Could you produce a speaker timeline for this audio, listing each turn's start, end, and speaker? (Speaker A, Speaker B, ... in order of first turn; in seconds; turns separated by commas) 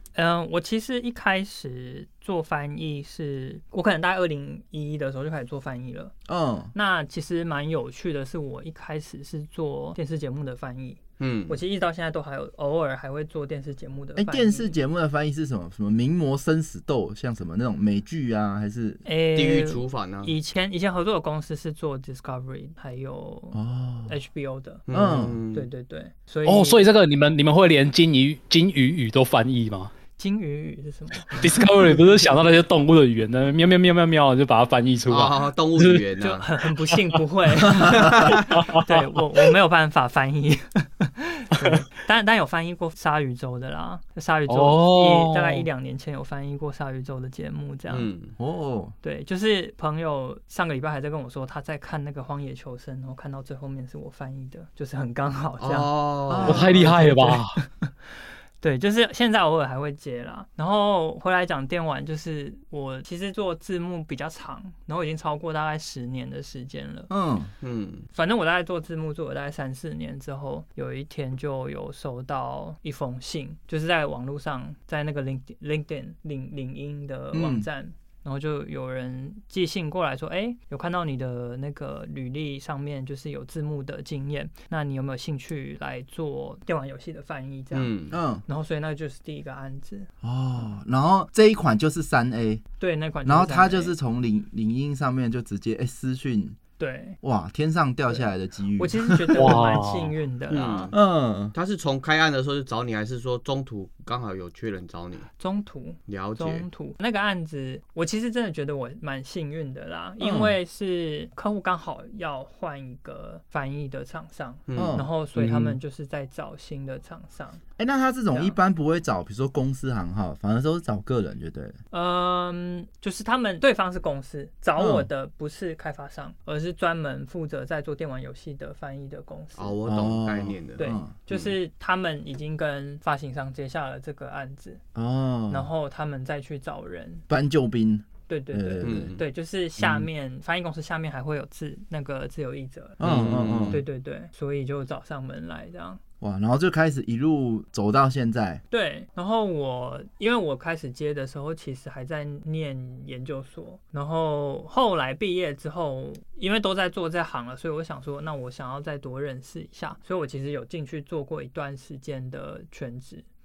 Speaker A: 0.1-6.1, Speaker B: 6.3-6.7, Speaker A: 6.7-14.7, Speaker C: 11.2-11.6, Speaker B: 14.2-19.0, Speaker A: 19.1-24.9, Speaker C: 19.4-20.3, Speaker B: 23.5-24.1, Speaker C: 24.9-25.7, Speaker B: 24.9-25.4, Speaker A: 25.5-26.8, Speaker D: 26.4-29.9, Speaker A: 30.2-32.3, Speaker D: 31.3-36.0, Speaker C: 35.1-36.5, Speaker A: 36.2-48.1, Speaker B: 37.8-38.3, Speaker C: 37.9-38.4, Speaker D: 38.5-39.0, Speaker D: 44.5-45.7, Speaker C: 47.9-48.4, Speaker B: 48.4-48.9, Speaker A: 49.0-67.1, Speaker C: 55.6-56.8, Speaker B: 56.3-56.8, Speaker D: 56.5-57.6, Speaker B: 67.1-67.5, Speaker C: 67.6-68.1, Speaker A: 68.1-87.9, Speaker B: 77.3-77.7, Speaker C: 87.7-88.2, Speaker B: 88.1-88.4, Speaker A: 88.5-90.1, Speaker B: 90.2-92.6, Speaker A: 92.8-93.9, Speaker B: 93.2-96.6, Speaker A: 96.8-97.2, Speaker B: 97.2-99.6, Speaker A: 98.8-100.9, Speaker D: 99.4-100.1, Speaker C: 100.5-101.0, Speaker B: 100.9-101.5, Speaker C: 101.5-105.3, Speaker A: 105.4-117.6, Speaker C: 106.1-106.7, Speaker B: 110.2-110.6, Speaker C: 114.7-115.0, Speaker B: 114.8-115.8, Speaker B: 117.8-121.8, Speaker A: 121.9-129.8, Speaker B: 124.8-125.1, Speaker C: 129.6-131.6, Speaker B: 129.9-131.1, Speaker A: 130.8-134.8, Speaker B: 134.9-135.7, Speaker A: 135.5-137.2, Speaker B: 137.3-139.1, Speaker A: 138.3-146.0, Speaker C: 138.8-139.2, Speaker B: 139.8-140.1, Speaker B: 143.0-143.8, Speaker C: 143.0-143.8, Speaker B: 146.2-148.6, Speaker A: 148.7-163.2